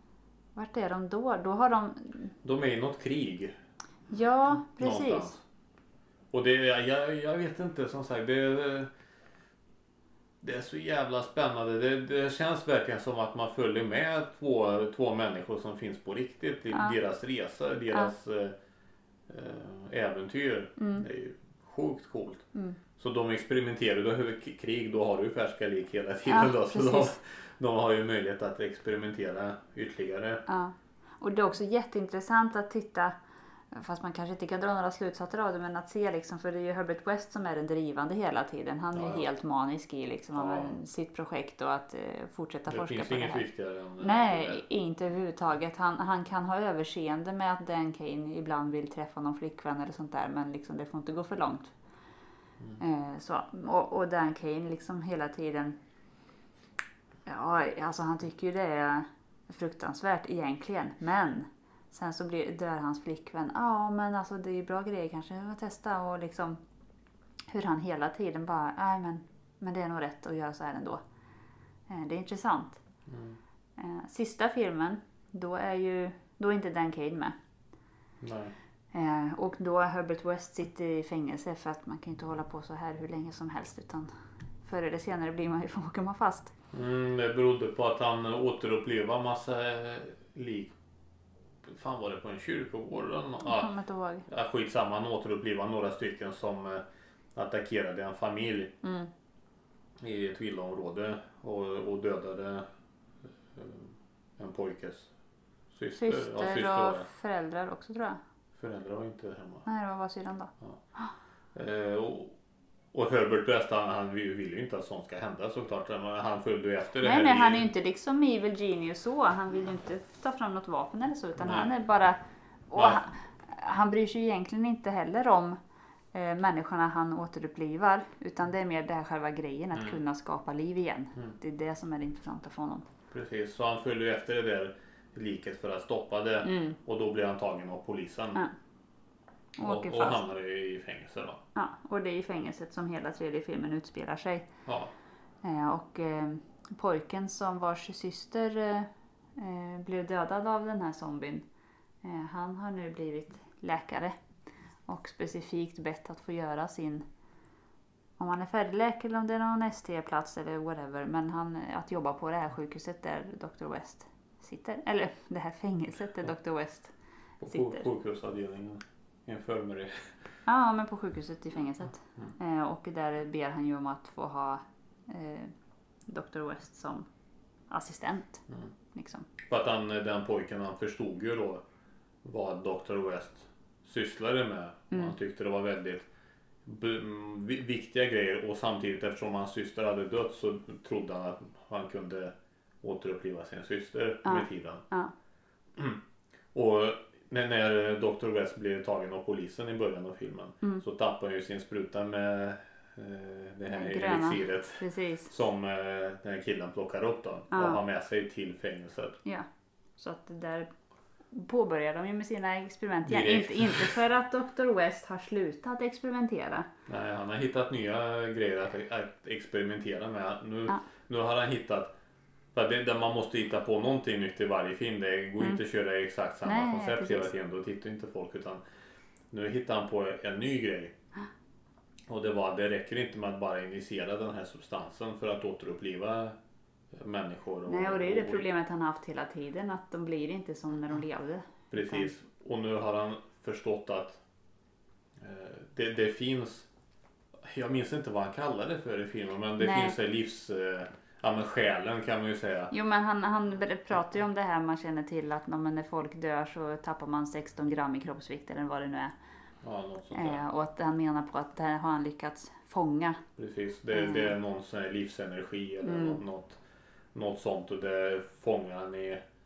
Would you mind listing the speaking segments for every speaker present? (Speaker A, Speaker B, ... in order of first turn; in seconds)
Speaker A: 0.5-2.3, 4.1-5.4, 20.8-21.1, 26.2-27.1, 30.5-33.1, 33.7-43.5, 44.0-51.7, 52.8-55.8, 57.2-66.6, 67.5-71.0, 71.9-72.8, 73.8-77.3, 78.9-84.1, 84.6-86.5, 93.4-94.2, 98.8-99.1, 105.9-108.2, 109.7-111.1, 117.0-125.6, 126.1-132.8, 136.4-136.8, 139.6-140.3, 141.5-144.4, 145.4-151.4, 152.0-154.1, 154.9-157.0, 158.2-167.9, 170.4-175.5, 176.1-177.1, 177.7-178.4, 178.9-179.3, 194.2-195.1, 203.7-205.3, 207.5-207.8, 210.0-210.7, 211.3-216.7, 226.4-227.3, 237.7-242.1, 249.6-249.9, 252.7-259.1, 260.1-263.2, 263.9-264.3, 265.8-266.2
Speaker B: 2.4-3.5, 4.8-5.4, 6.3-8.9, 10.4-18.5, 19.3-22.4, 23.0-30.4, 38.9-39.3, 40.3-40.8, 42.7-44.6, 73.1-73.4, 78.2-78.5, 86.7-90.7, 91.6-93.7, 94.3-96.8, 97.3-98.7, 100.0-102.6, 103.5-105.1, 105.7-107.1, 108.5-109.7, 111.5-112.3, 112.9-117.7, 121.4-121.7, 122.8-123.0, 133.1-138.4, 139.6-141.4, 144.7-144.9, 167.4-170.1, 179.5-181.6, 182.2-186.1, 186.6-194.8, 196.5-209.2, 213.1-214.0, 216.9-221.9, 222.5-228.6, 229.3-230.9, 232.1-236.3, 236.9-238.4, 241.7-244.2, 245.2-246.7, 247.4-252.7, 259.6-260.4, 263.4-266.6, 267.1-269.2